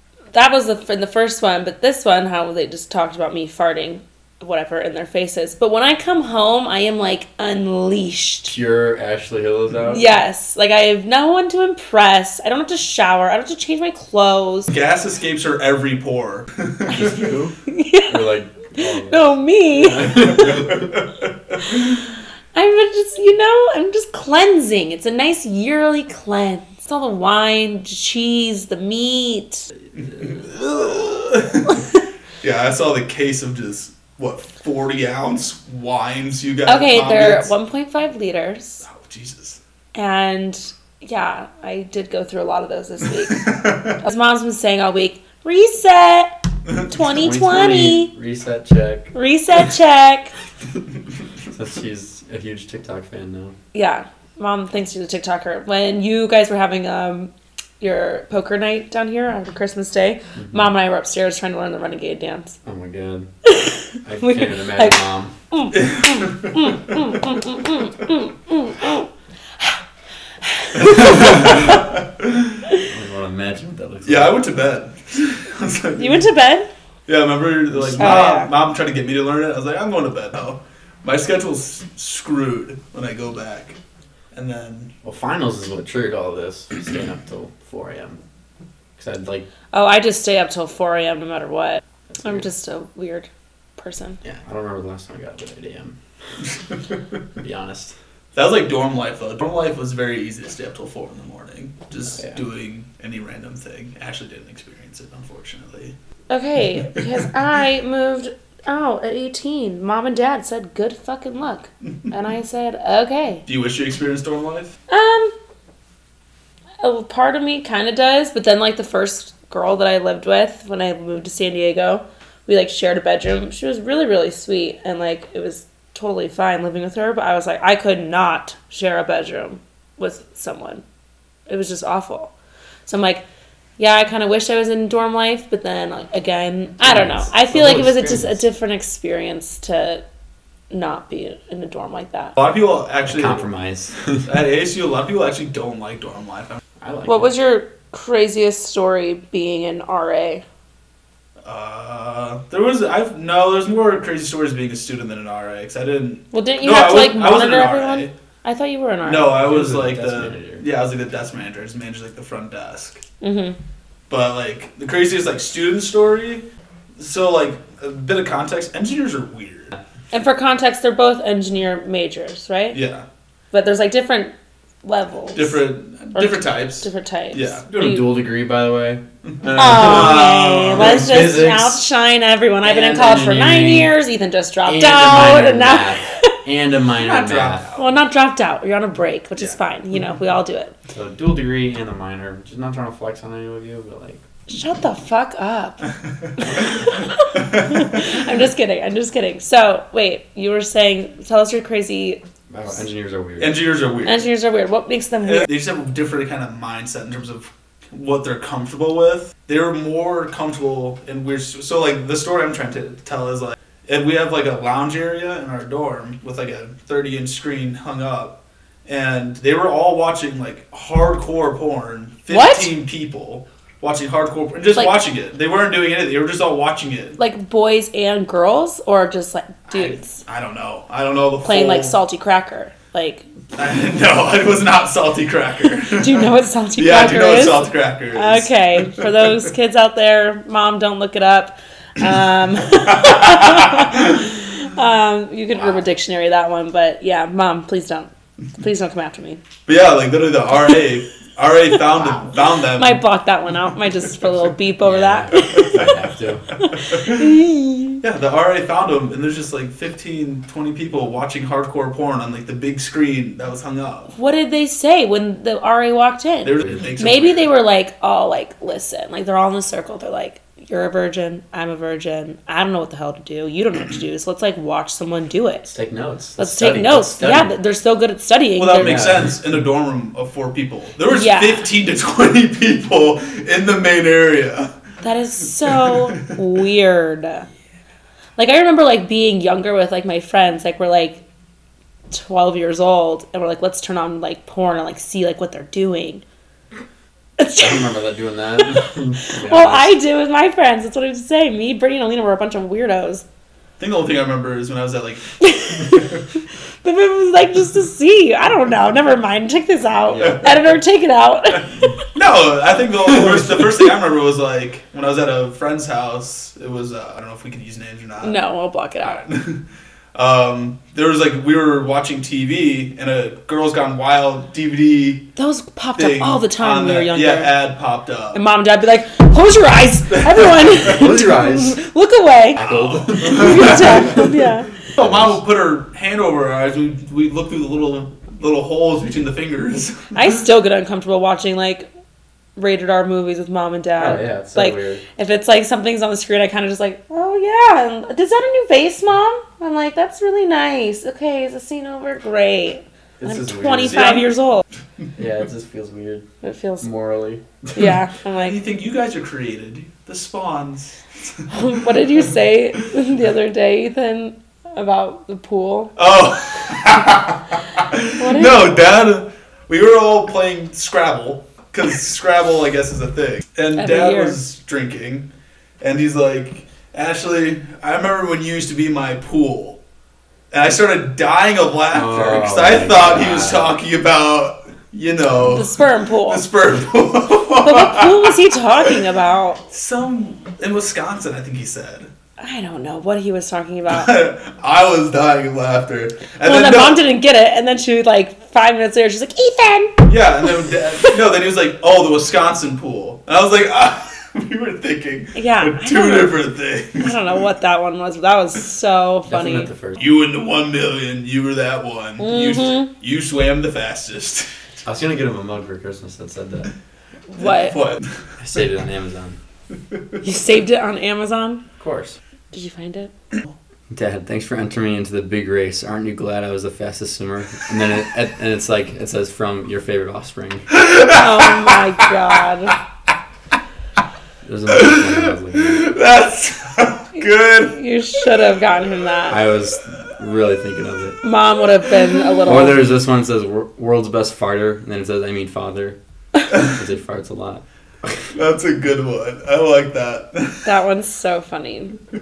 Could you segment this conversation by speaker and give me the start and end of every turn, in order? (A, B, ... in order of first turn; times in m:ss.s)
0:00.3-0:08.5 A
0:08.5-0:10.1 B
0:09.9-0:14.7 A
0:14.7-0:17.3 C
0:16.9-0:17.6 B
0:17.7-0:20.7 A
0:18.1-0:20.9 B
0:20.3-0:20.9 C
0:22.5-0:29.7 A
0:30.1-0:30.4 B
0:30.2-0:31.8 C
0:32.4-0:37.5 C
0:36.6-0:38.8 A
0:38.8-0:39.6 C
0:39.9-0:46.3 A
0:43.3-0:44.0 C
0:46.9-0:48.1 A
0:47.1-0:49.1 B
0:49.1-0:50.3 A
0:51.5-0:53.6 B
0:53.7-1:02.6 A
1:00.4-1:00.6 B
1:02.6-1:03.3 B
1:03.4-1:05.0 A
1:04.0-1:05.3 B
1:05.5-1:09.1 A
1:05.7-1:06.7 C
1:10.4-1:11.8 A
1:10.7-1:12.6 C
1:12.8-1:14.4 B
1:14.0-1:16.2 C
1:16.0-1:16.7 A
1:17.1-1:23.8 C
1:17.7-1:18.1 B
1:18.0-1:18.5 A
1:24.3-1:24.9 C
1:25.0-1:28.2 B
1:29.0-1:29.5 B
1:29.7-1:34.2 A
1:32.1-1:32.4 B
1:34.2-1:36.0 B
1:37.4-1:37.9 B
1:38.3-1:45.9 C
1:42.1-1:42.4 B
1:46.3-1:53.4 A
1:53.4-1:54.8 C
1:54.9-1:55.3 A
1:56.8-2:10.8 A
2:11.5-2:12.3 A
2:12.8-2:13.2 A
2:13.8-2:20.0 A
2:16.8-2:18.4 B
2:20.7-2:22.3 A
2:22.4-2:23.4 C
2:23.0-2:24.3 B
2:24.2-2:26.6 C
2:26.8-2:27.3 B
2:27.0-2:30.4 A
2:31.4-2:38.1 C
2:36.3-2:39.3 A
2:39.0-2:43.0 C
2:39.4-2:40.6 B
2:43.2-2:43.6 A
2:44.1-2:46.4 C
2:47.0-2:49.7 C
2:50.1-2:52.8 A
2:52.7-2:53.0 C
2:53.5-2:55.6 A
2:55.3-2:57.6 C
2:56.1-2:58.1 A
2:57.7-3:01.7 B
2:59.3-3:01.7 C
2:59.6-3:06.4 A
3:02.6-3:03.9 B
3:04.6-3:07.6 B
3:07.0-3:07.9 C
3:07.8-3:10.7 A
3:10.9-3:14.2 B
3:14.5-3:15.8 A
3:16.4-3:22.2 A
3:22.5-3:23.6 B
3:23.4-3:24.3 C
3:24.0-3:25.5 A
3:25.2-3:47.2 C
3:42.3-3:42.7 A
3:44.7-3:45.0 A
3:47.2-3:50.2 A
3:49.7-3:52.0 C
3:51.4-3:53.2 A
3:53.6-3:59.1 C
3:55.9-4:09.4 A
4:02.9-4:04.0 C
4:09.7-4:13.0 C
4:12.0-4:12.2 B
4:12.7-4:18.0 A
4:14.8-4:16.4 B
4:15.4-4:16.0 C
4:16.7-4:17.3 C
4:18.0-4:24.1 C
4:24.1-4:35.7 A
4:26.4-4:27.5 C
4:35.7-4:37.5 B
4:36.4-4:39.0 A
4:38.6-4:44.7 C
4:38.7-4:39.4 B
4:41.1-4:41.7 A
4:45.0-4:47.5 A
4:45.6-4:46.3 C
4:48.4-4:51.2 A
4:52.1-4:56.2 A
4:57.4-4:57.9 A
4:57.6-4:59.9 B
4:58.6-5:03.2 A
5:03.8-5:06.1 C
5:05.4-5:06.2 A
5:06.8-5:11.9 A
5:10.1-5:10.4 B
5:12.1-5:18.4 C
5:18.2-5:19.2 A
5:19.0-5:19.6 C
5:20.1-5:25.3 C
5:25.4-5:27.6 A
5:26.0-5:28.4 C
5:28.3-5:34.7 A
5:30.3-5:30.7 C
5:30.8-5:31.8 B
5:32.5-5:34.3 B
5:32.6-5:34.3 C
5:35.0-5:40.4 C
5:35.0-5:35.4 B
5:40.1-5:41.9 A
5:42.6-5:54.6 A
5:44.0-5:45.0 B
5:53.2-5:54.2 B
5:53.8-5:54.3 C
5:55.2-5:56.2 B
5:56.4-5:56.9 A
5:56.8-5:57.4 B
5:57.7-5:58.6 A
5:58.4-6:01.5 C
6:01.5-6:05.9 A
6:06.0-6:15.3 C
6:08.2-6:08.7 A
6:13.8-6:14.4 A
6:15.8-6:19.8 C
6:20.5-6:28.9 C
6:21.9-6:23.8 B
6:25.3-6:26.4 A
6:27.6-6:29.6 A
6:29.7-6:32.1 C
6:32.4-6:34.1 A
6:33.9-6:37.0 C
6:36.4-6:40.1 A
6:40.0-6:47.4 C
6:45.3-6:46.4 A
6:47.0-6:49.7 A
6:49.2-6:50.0 B
6:50.0-6:54.5 C
6:52.2-6:52.9 A
6:54.8-6:56.7 B
6:57.3-6:57.8 A
6:57.4-6:58.1 C
6:58.4-6:59.4 B
7:00.2-7:01.6 A
7:01.8-7:02.2 B
7:02.5-7:03.1 A
7:03.9-7:10.7 B
7:10.7-7:11.8 C
7:11.1-7:12.8 A
7:14.4-7:15.9 B
7:14.7-7:18.2 C
7:17.2-7:19.4 A
7:19.3-7:21.2 B
7:21.2-7:22.9 A
7:22.4-7:26.0 B
7:26.5-7:28.2 B
7:28.3-7:30.7 C
7:30.6-7:32.0 A